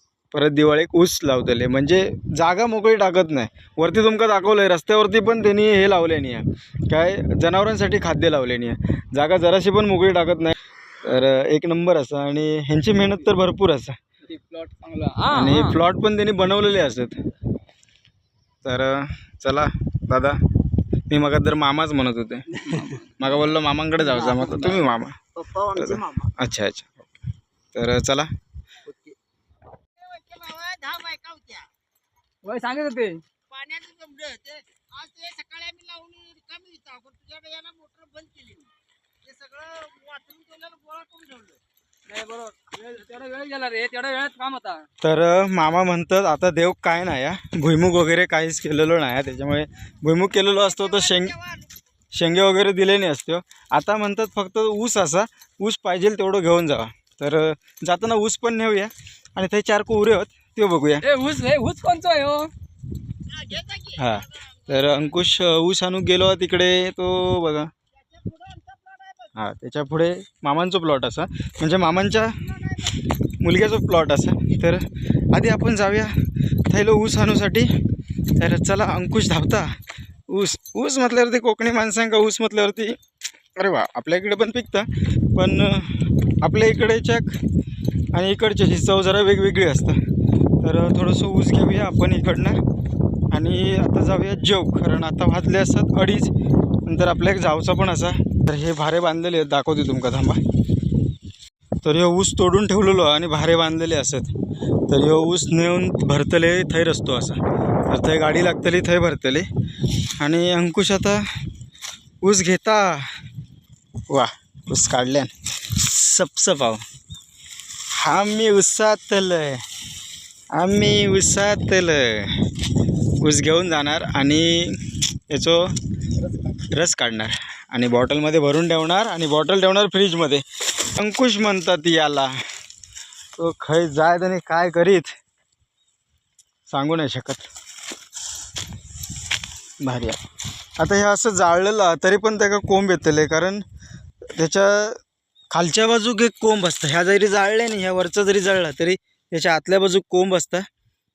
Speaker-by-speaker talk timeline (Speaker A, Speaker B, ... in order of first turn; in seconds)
Speaker A: 0.3-14.0, 15.3-17.2, 18.6-20.4, 21.1-27.1, 27.7-28.3, 45.0-51.5, 52.1-61.1, 63.6-67.7, 69.3-76.2, 76.7-77.7, 78.4-79.8, 80.3-83.0, 83.6-87.4, 88.1-90.0, 90.6-92.6, 93.3-100.4, 101.8-104.3, 104.9-109.5, 110.2-111.3, 112.2-113.1, 114.1-116.8, 118.0-119.6, 120.5-122.5, 123.2-125.7, 126.7-132.4, 133.4-135.1, 136.7-137.5, 139.8-140.2, 140.8-143.6, 144.3-145.0, 145.5-150.7
Speaker B: 14.3-15.8, 32.4-33.2, 42.1-44.9, 61.0-62.5
Speaker C: 24.2-24.6, 25.4-26.2, 28.9-29.1, 30.1-31.7, 33.5-38.6, 39.3-41.6